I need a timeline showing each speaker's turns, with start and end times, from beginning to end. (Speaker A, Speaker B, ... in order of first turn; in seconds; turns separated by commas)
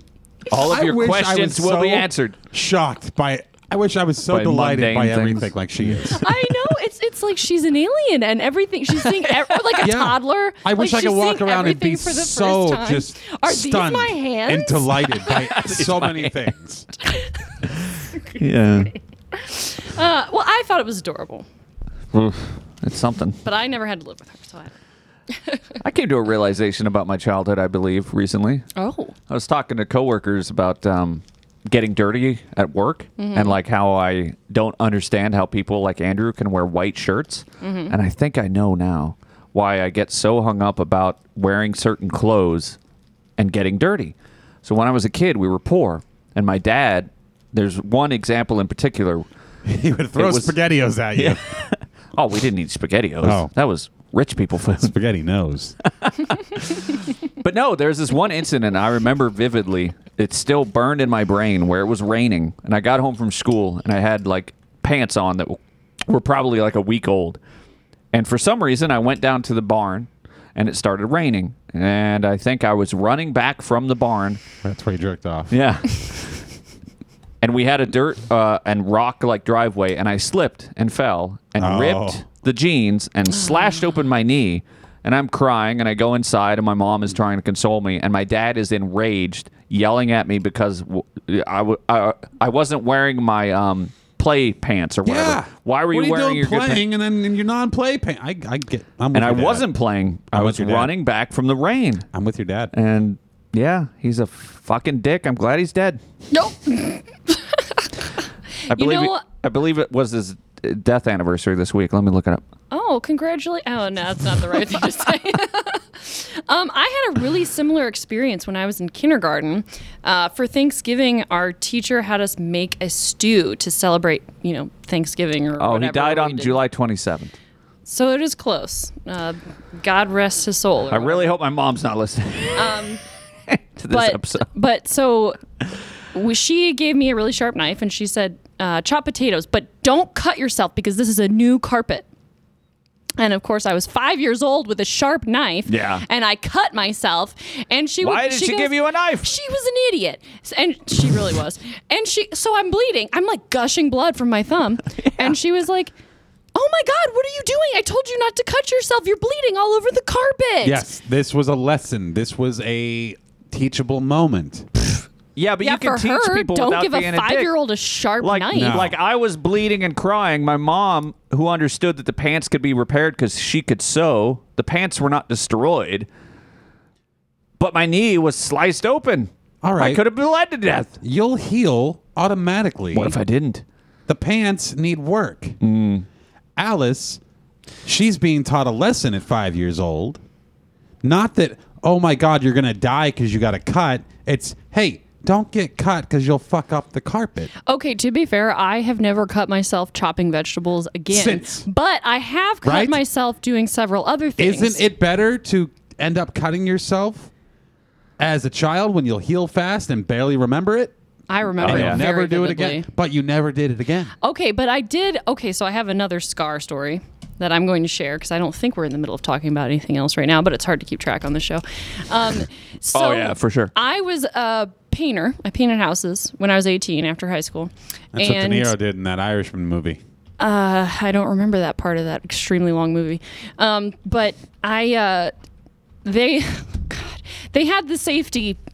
Speaker A: 0.5-2.4, Speaker B: 0.6-6.2, Speaker A: 4.3-6.0, Speaker C: 6.1-15.2, Speaker A: 9.0-9.8, Speaker B: 9.8-16.9, Speaker A: 15.3-16.4, Speaker A: 18.4-18.9, Speaker C: 19.3-21.5, Speaker A: 22.1-23.4, Speaker C: 23.4-24.7, Speaker A: 25.8-28.7, Speaker C: 28.8-29.1, Speaker A: 29.3-42.8, Speaker C: 33.2-33.6, Speaker C: 37.6-38.0, Speaker A: 43.4-49.2, Speaker B: 49.6-51.4, Speaker A: 50.2-50.5, Speaker A: 51.1-54.9, Speaker B: 53.2-53.5, Speaker B: 54.8-55.8, Speaker A: 56.0-67.4, Speaker A: 68.1-74.4, Speaker B: 74.6-75.5, Speaker A: 75.5-76.4, Speaker A: 77.4-96.8, Speaker B: 81.6-82.2, Speaker B: 95.0-99.7, Speaker A: 99.1-102.1, Speaker B: 100.3-101.0, Speaker B: 102.1-102.7, Speaker A: 102.7-106.0, Speaker C: 106.3-107.8, Speaker C: 108.7-109.2, Speaker A: 108.7-112.4, Speaker C: 112.7-126.6, Speaker A: 125.6-127.3, Speaker C: 127.9-131.3, Speaker A: 130.9-132.7, Speaker C: 132.6-133.0, Speaker A: 133.5-134.5, Speaker C: 133.9-135.4, Speaker C: 136.1-142.1, Speaker C: 143.2-155.9, Speaker A: 145.7-146.1, Speaker A: 148.0-149.3, Speaker A: 155.0-155.4, Speaker C: 156.6-160.9, Speaker B: 160.6-164.7, Speaker A: 165.4-167.5, Speaker C: 165.6-168.8, Speaker A: 168.2-176.1, Speaker B: 168.5-169.0, Speaker A: 177.6-180.9, Speaker B: 179.6-180.0, Speaker B: 181.0-183.2, Speaker A: 182.9-183.6, Speaker B: 184.1-185.6, Speaker A: 185.6-186.1, Speaker B: 186.6-187.2, Speaker B: 187.8-190.2, Speaker B: 191.0-197.5, Speaker C: 197.7-204.8, Speaker B: 201.1-201.7, Speaker B: 202.6-203.0, Speaker B: 204.4-207.3, Speaker B: 208.2-210.9, Speaker C: 211.3-212.9, Speaker B: 211.6-214.1, Speaker A: 211.6-212.0, Speaker C: 214.2-228.7, Speaker A: 222.9-223.7, Speaker B: 228.1-230.0, Speaker C: 230.4-235.3, Speaker C: 236.1-238.6